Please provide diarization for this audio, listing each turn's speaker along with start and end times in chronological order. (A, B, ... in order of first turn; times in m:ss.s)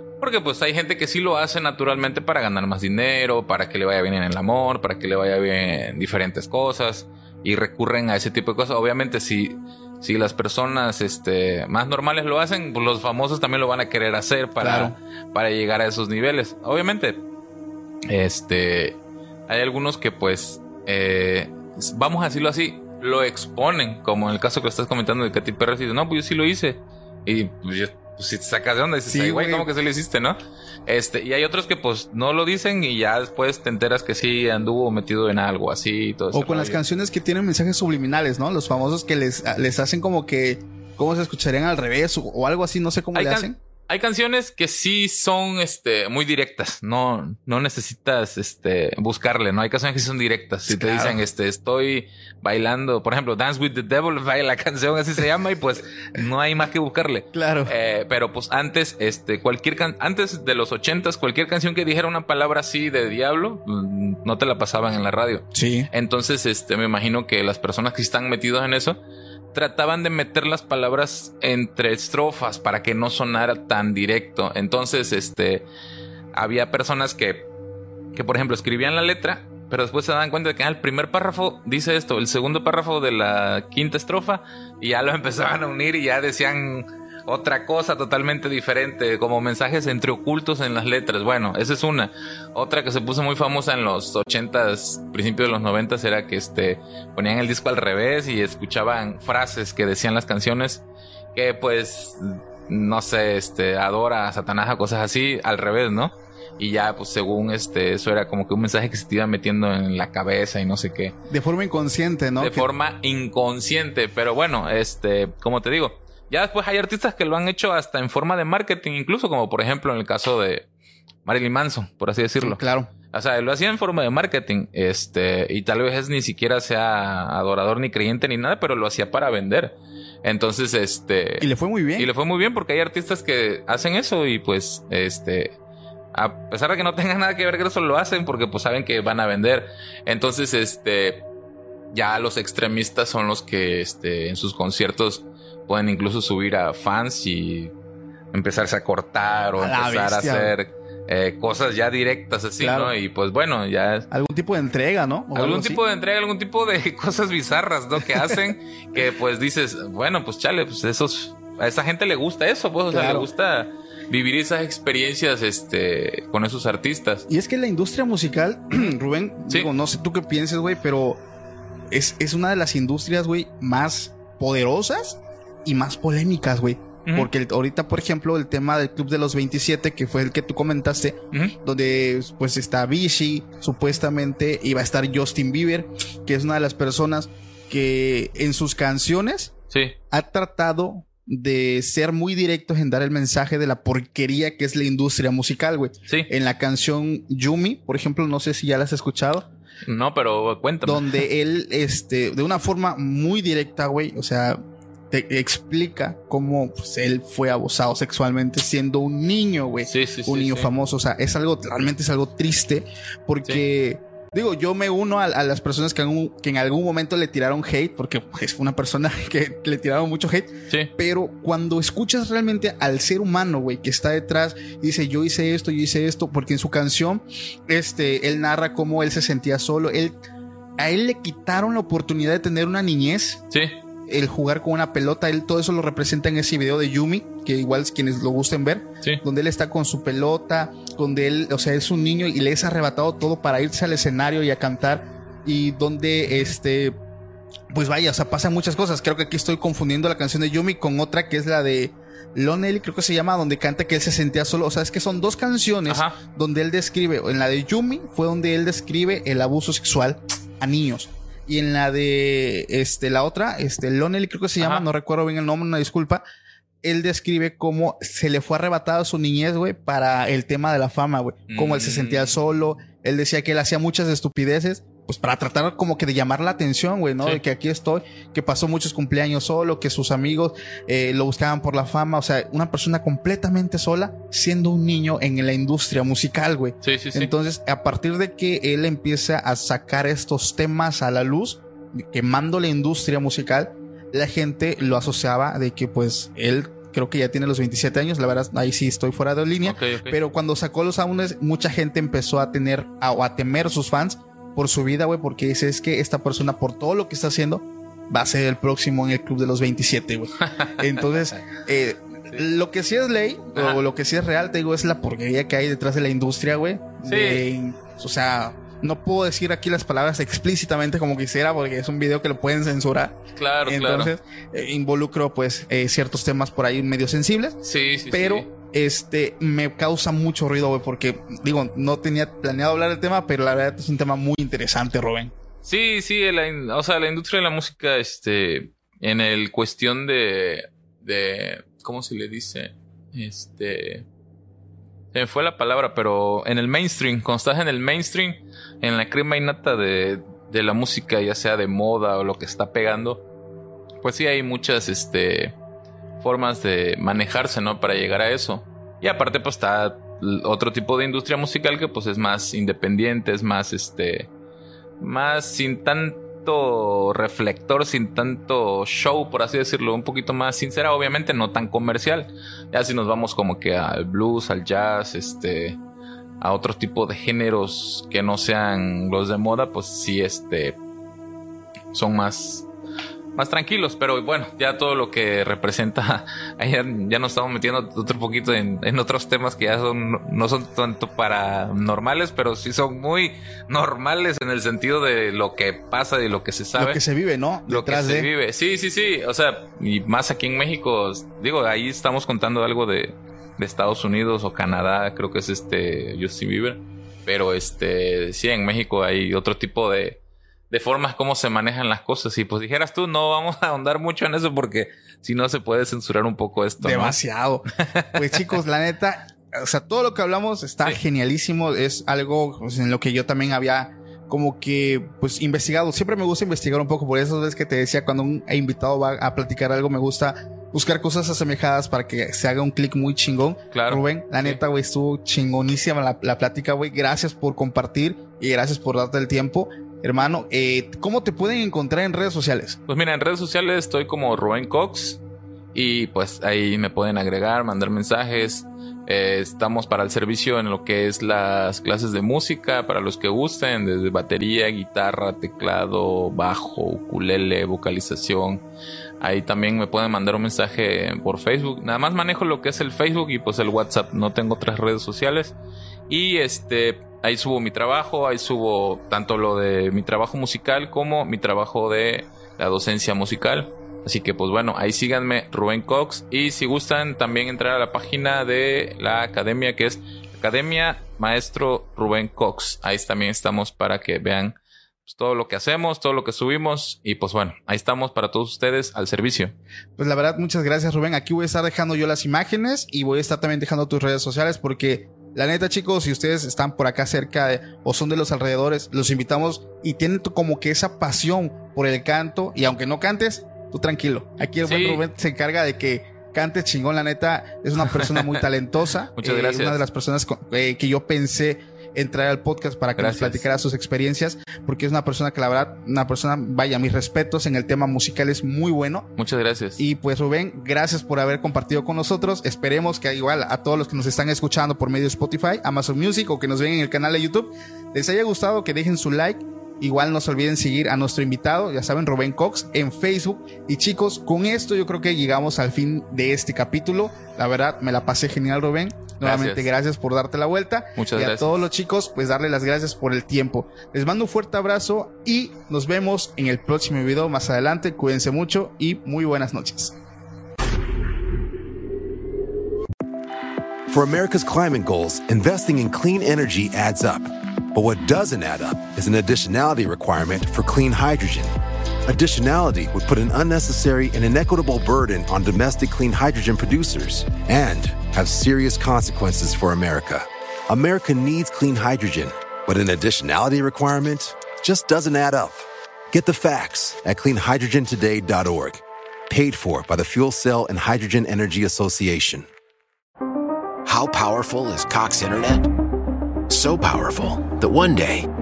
0:00.2-0:17.2 A
0:14.6-0:15.0 B
0:18.1-0:19.0 A
0:19.5-0:36.8 A
0:29.1-0:29.7 B
0:36.3-0:43.6 B
0:43.2-1:09.0 A
0:50.7-0:51.2 B
0:57.3-0:57.7 B
1:05.5-1:05.9 B
1:09.5-1:15.7 A
1:16.3-1:17.5 A
1:18.2-1:40.8 A
1:41.3-1:51.2 A
1:51.3-1:52.7 B
1:52.4-2:00.7 A
2:01.2-2:02.6 A
2:02.4-2:02.9 B
2:03.1-2:11.5 A
2:11.4-2:12.1 B
2:12.0-2:15.6 A
2:16.1-2:21.2 A
2:21.9-2:27.7 A
2:28.3-2:34.1 A
2:29.6-2:30.6 B
2:32.6-2:33.0 B
2:34.1-2:35.8 B
2:35.3-2:47.3 A
2:38.0-2:38.4 B
2:42.9-2:43.3 B
2:47.3-2:51.2 B
2:51.9-3:09.5 B
3:09.7-3:10.0 A
3:10.1-3:19.5 B
3:19.9-3:21.2 A
3:20.8-3:50.2 B
3:29.8-3:30.7 A
3:50.8-3:53.4 B
3:53.5-3:53.8 A
3:54.1-4:07.0 B
4:06.3-4:06.5 A
4:07.7-4:26.2 B
4:15.9-4:16.2 A
4:24.6-4:24.9 A
4:26.8-5:35.3 B
4:31.5-4:32.4 A
4:46.8-4:47.3 A
4:59.6-5:00.2 A
5:10.6-5:11.5 A
5:13.5-5:13.8 A
5:17.0-5:17.4 A
5:23.4-5:24.1 A
5:27.6-5:28.5 A
5:35.6-5:44.1 A
5:45.1-5:53.2 A
5:54.0-5:55.6 A
5:56.2-6:04.3 A
6:05.0-6:15.8 A
6:16.4-6:20.8 A
6:21.9-6:22.7 A
6:23.4-6:37.0 A
6:36.8-6:38.3 B
6:37.7-6:50.2 A
6:50.7-6:57.2 A
6:56.8-7:22.8 B
7:13.7-7:14.6 A
7:22.9-7:25.2 A
7:25.7-7:38.6 A
7:39.2-7:45.6 A
7:46.1-8:09.6 A
8:10.0-8:39.1 B
8:24.6-8:25.0 A
8:27.8-8:28.4 A
8:29.2-8:29.8 A
8:33.0-8:33.4 A
8:39.2-8:39.8 A
8:39.8-9:10.0 B
8:59.2-8:59.7 A
9:01.0-9:01.6 A
9:13.9-9:21.5 C
9:22.0-9:42.5 C
9:43.8-9:45.7 D
9:46.5-9:48.3 D